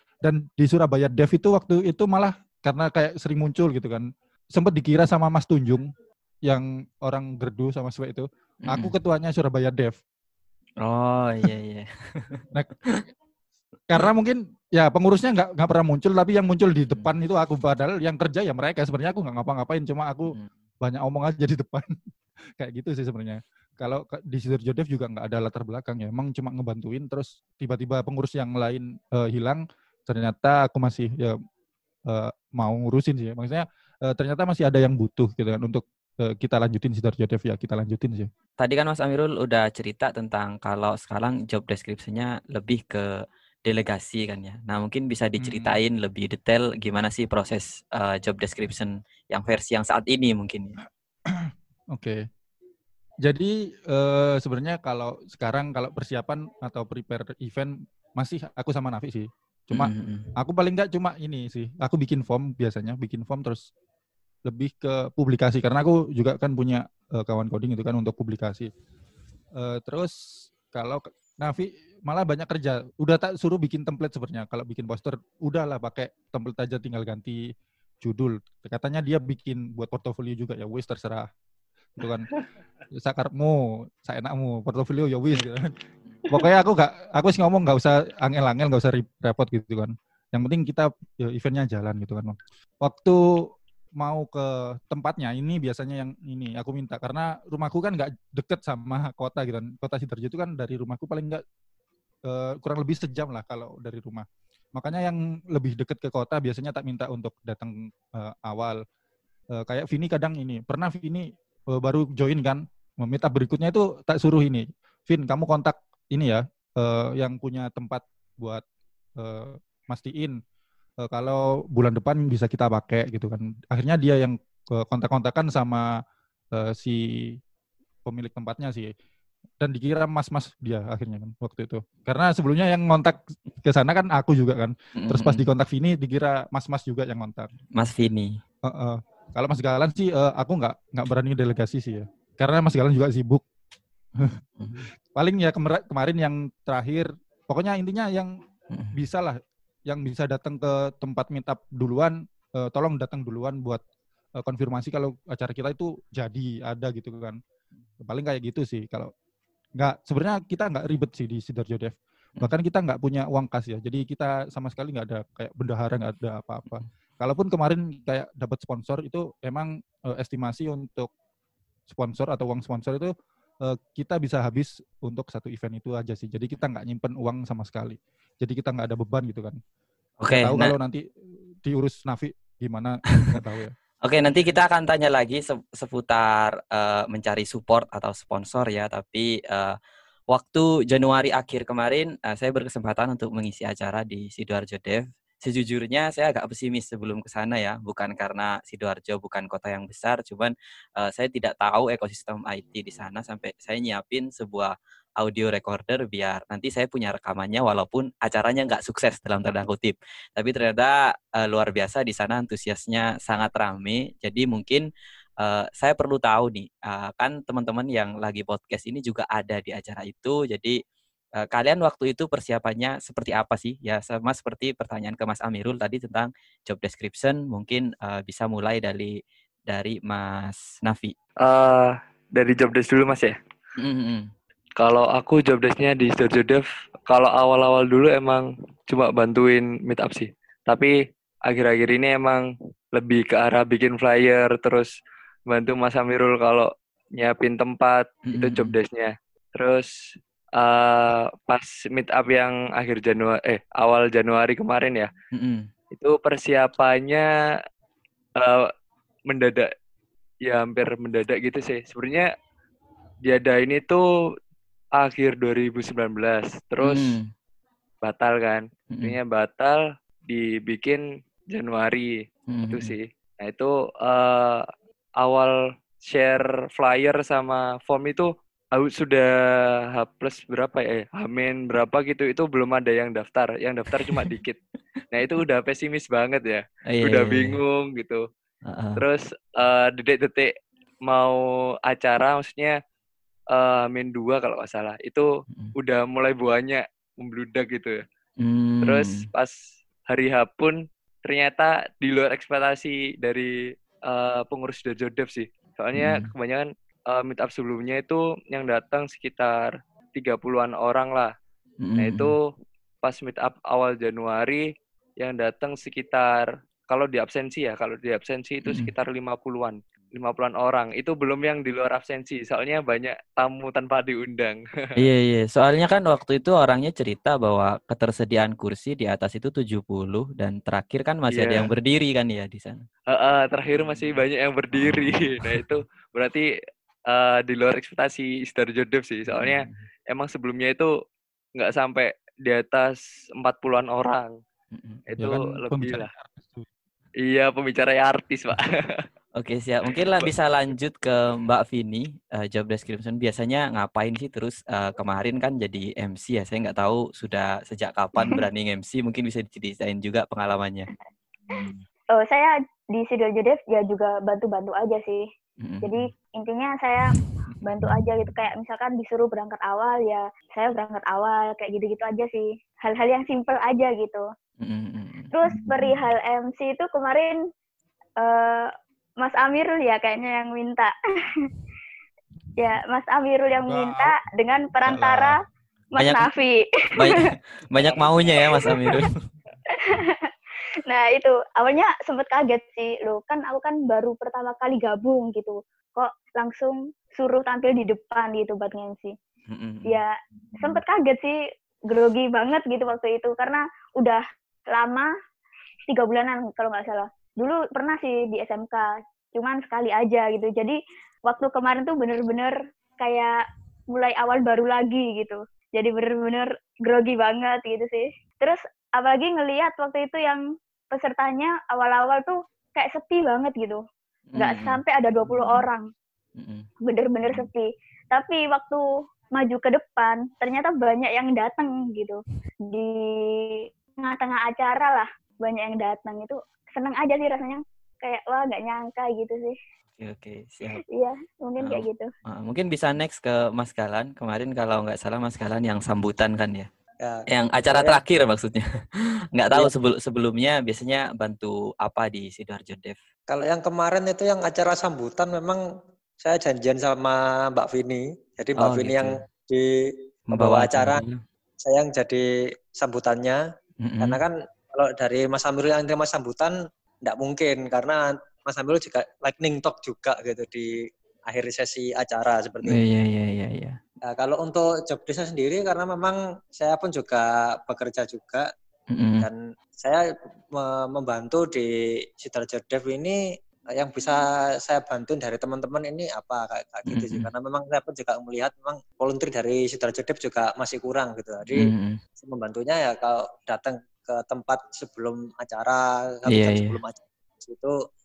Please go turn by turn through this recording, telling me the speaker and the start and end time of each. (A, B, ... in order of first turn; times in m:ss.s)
0:00.2-0:05.9 A
0:06.4-0:10.0 A
0:08.6-0:08.9 B
0:10.8-0:13.0 B
0:13.9-0:21.9 A
0:22.6-0:31.4 A
0:32.1-0:38.3 A
0:38.6-0:43.0 B
0:43.6-0:50.7 B
0:45.4-0:45.7 A
0:51.3-0:52.2 A
0:53.2-1:03.6 A
0:59.7-1:00.3 B
1:04.4-1:08.7 A
1:09.6-1:10.1 A
1:10.7-1:17.4 A
1:18.0-1:21.3 A
1:22.0-1:22.3 A
1:22.9-1:25.7 A
1:26.3-1:33.2 A
1:34.0-1:41.4 A
1:42.3-1:48.8 A
1:49.6-1:58.6 A
1:59.2-2:00.4 A
2:01.0-2:05.9 A
2:06.5-2:07.4 A
2:08.0-2:08.9 A
2:09.6-2:17.5 A
2:15.0-2:15.4 B
2:17.7-2:18.4 B
2:18.6-2:23.4 A
2:24.6-2:24.9 B
2:25.1-2:28.3 A
2:28.9-2:33.8 A
2:34.4-2:37.4 A
2:38.0-2:39.1 A
2:39.8-2:51.1 A
2:51.9-2:59.6 A
3:00.2-3:00.7 B
3:00.4-3:01.0 A
3:01.6-3:03.7 A
3:04.0-3:09.7 B
3:10.3-3:34.9 B
3:35.4-3:40.8 B
3:41.4-3:49.2 B
3:49.7-3:51.1 B
3:51.4-3:53.4 C
3:53.8-3:54.3 B
3:54.8-4:00.9 C
4:01.5-4:04.9 C
4:05.5-4:09.9 C
4:08.3-4:08.7 B
4:10.6-4:15.1 C
4:15.3-4:15.7 B
4:15.9-4:17.3 C
4:18.4-4:18.7 C
4:19.3-4:19.7 C
4:20.4-4:22.3 C
4:23.3-4:24.0 C
4:25.0-4:27.2 C
4:26.8-4:27.3 B
4:28.0-4:32.1 C
4:32.5-4:32.9 B
4:32.7-4:34.6 C
4:35.2-4:35.5 C
4:36.1-4:39.3 C
4:39.9-4:44.6 C
4:43.9-4:44.3 B
4:45.1-4:48.2 C
4:46.9-4:47.6 B
4:48.6-4:49.0 B
4:49.0-4:50.5 C
4:51.1-4:52.8 C
4:53.5-4:58.0 C
4:58.4-4:59.3 B
4:58.8-4:59.6 C
5:00.1-5:03.6 C
5:04.1-5:11.3 C
5:05.9-5:06.3 B
5:11.8-5:12.3 B
5:12.0-5:12.4 C
5:13.0-5:14.6 C
5:15.2-5:24.6 C
5:18.6-5:18.9 B
5:25.0-5:32.9 B
5:31.3-5:31.7 C
5:33.1-5:36.4 C
5:33.7-5:34.2 B
5:34.7-5:35.7 B
5:37.1-5:40.9 C
5:39.3-5:39.8 B
5:41.6-5:44.4 C
5:44.7-5:45.0 B
5:45.1-5:46.1 C
5:45.2-5:46.6 A
5:47.3-5:48.7 C
5:49.4-6:00.9 B
6:01.6-6:05.2 D
6:05.6-6:06.1 B
6:05.8-6:14.2 D
6:14.6-6:15.3 B
6:15.3-6:17.4 D
6:18.2-6:18.7 D
6:19.2-6:20.9 D
6:22.6-6:25.4 D
6:23.6-6:24.1 A
6:24.9-6:25.3 A
6:26.0-6:27.2 D
6:26.0-6:26.3 B
6:27.0-6:29.1 B
6:28.5-6:28.8 D
6:29.7-6:30.3 D
6:30.9-6:39.1 D
6:39.5-6:40.0 B
6:39.8-6:41.4 D
6:41.9-6:45.1 D
6:45.9-6:53.4 D
6:53.9-7:03.8 D
7:04.3-7:05.6 B
7:04.4-7:05.8 D
7:06.4-7:06.7 B
7:06.9-7:08.8 D
7:09.4-7:12.2 D
7:12.7-7:19.6 D
7:20.0-7:20.8 B
7:20.7-7:22.1 D
7:21.6-7:26.7 B
7:27.0-7:28.0 E
7:27.3-7:28.6 B
7:29.3-7:33.0 B
7:33.3-7:35.6 E
7:36.2-7:41.0 E
7:38.6-7:39.2 B
7:40.3-7:41.2 B
7:41.6-7:43.4 E
7:43.8-7:44.2 B
7:44.0-7:50.7 E
7:51.3-7:52.8 E
7:52.6-7:53.8 B
7:54.1-7:58.5 E
7:58.9-7:59.3 B
7:59.2-8:00.0 E
8:00.6-8:03.2 E
8:03.8-8:17.8 E
8:06.9-8:07.3 B
8:11.6-8:12.0 B
8:16.3-8:16.8 B